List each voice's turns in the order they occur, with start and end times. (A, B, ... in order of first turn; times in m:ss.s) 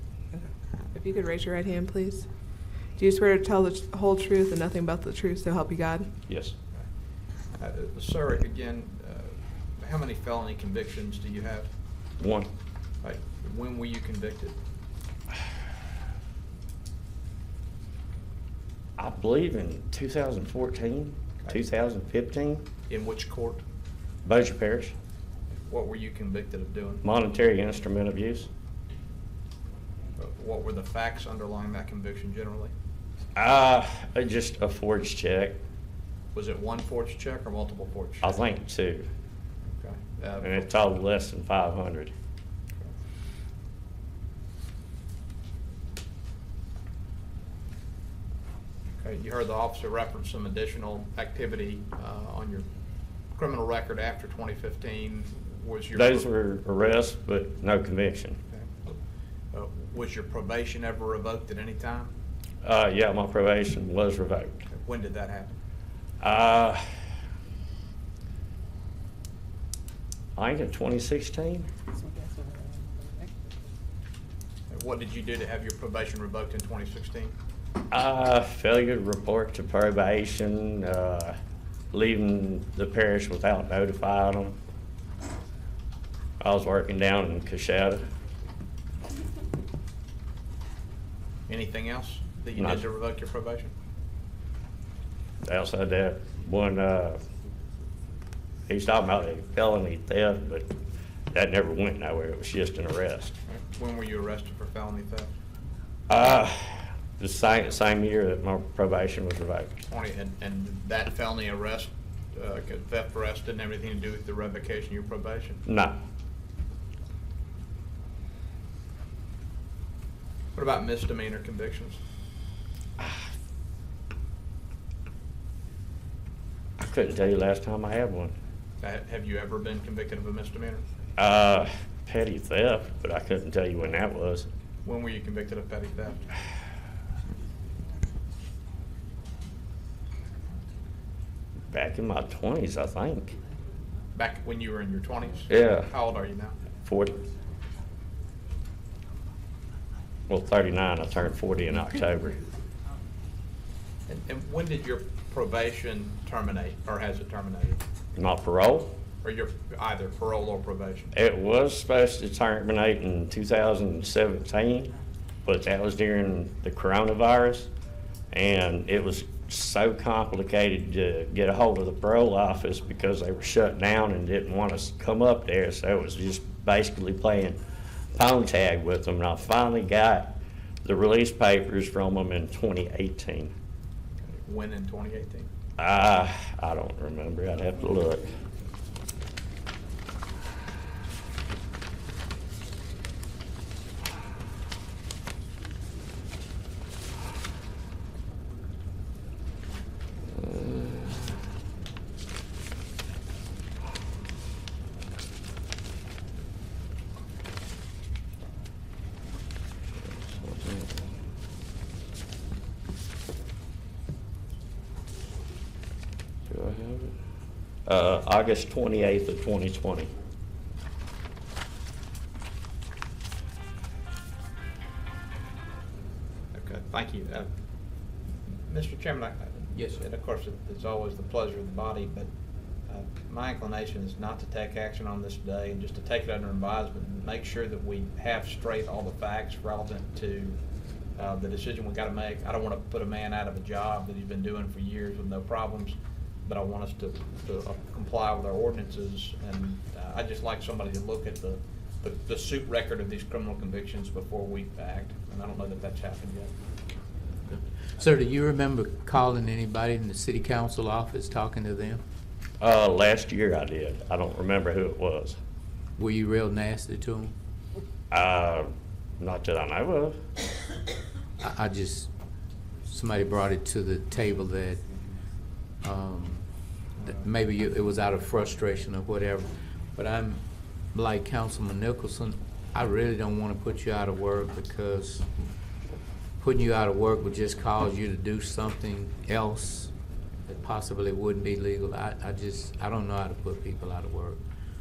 0:00.4-0:02.3 A
0:03.0-0:06.1 A
0:06.3-0:06.5 B
0:07.5-0:11.7 C
0:12.2-0:12.5 B
0:13.0-0:14.6 C
0:19.0-0:22.7 B
0:22.9-0:23.6 C
0:24.2-0:24.9 B
0:25.7-0:27.0 C
0:27.0-0:28.5 B
0:30.2-0:32.7 C
0:33.4-0:35.6 B
0:36.3-0:38.4 C
0:38.2-0:39.1 B
0:39.8-0:40.6 C
0:40.4-0:42.1 B
0:49.0-0:52.7 C
0:53.3-0:56.3 C
0:56.0-0:58.4 B
0:58.5-0:59.0 C
0:59.5-1:02.1 C
1:02.6-1:04.7 B
1:04.7-1:05.6 C
1:06.2-1:06.8 B
1:10.4-1:11.7 B
1:14.7-1:17.3 C
1:17.9-1:21.4 B
1:21.9-1:24.6 B
1:26.4-1:28.0 B
1:31.5-1:33.7 C
1:32.6-1:32.8 B
1:35.4-1:37.2 B
1:38.7-1:40.7 B
1:41.3-1:43.4 B
1:43.5-1:45.3 C
1:46.1-1:49.8 B
1:49.9-1:55.6 C
1:55.7-1:56.0 B
2:00.6-2:02.0 C
2:06.8-2:08.4 B
2:08.8-2:10.8 C
2:11.2-2:14.5 B
2:14.8-2:16.2 C
2:21.7-2:23.4 B
2:24.2-2:26.6 C
2:25.5-2:25.9 B
2:26.9-2:27.2 B
2:30.3-2:32.4 B
2:34.1-2:37.8 C
2:38.2-2:39.0 B
2:39.2-2:41.1 C
2:41.1-2:44.9 B
2:45.4-2:47.7 B
2:48.3-2:57.6 B
2:58.2-3:03.5 B
3:04.2-3:05.5 C
3:05.8-3:08.3 B
3:20.3-3:21.4 B
3:30.2-3:31.1 B
3:36.5-3:37.2 B
3:37.9-3:40.1 B
3:46.5-3:47.5 C
3:48.7-3:52.3 C
3:52.9-4:00.6 C
4:01.2-4:16.5 C
4:17.5-4:22.0 D
4:22.6-4:25.4 B
4:26.0-4:27.3 D
4:28.1-4:30.2 B
4:31.4-4:32.1 D
4:32.9-4:34.8 D
4:35.8-4:36.5 D
4:37.0-4:45.3 D
4:46.4-4:49.9 D
4:50.5-4:54.4 D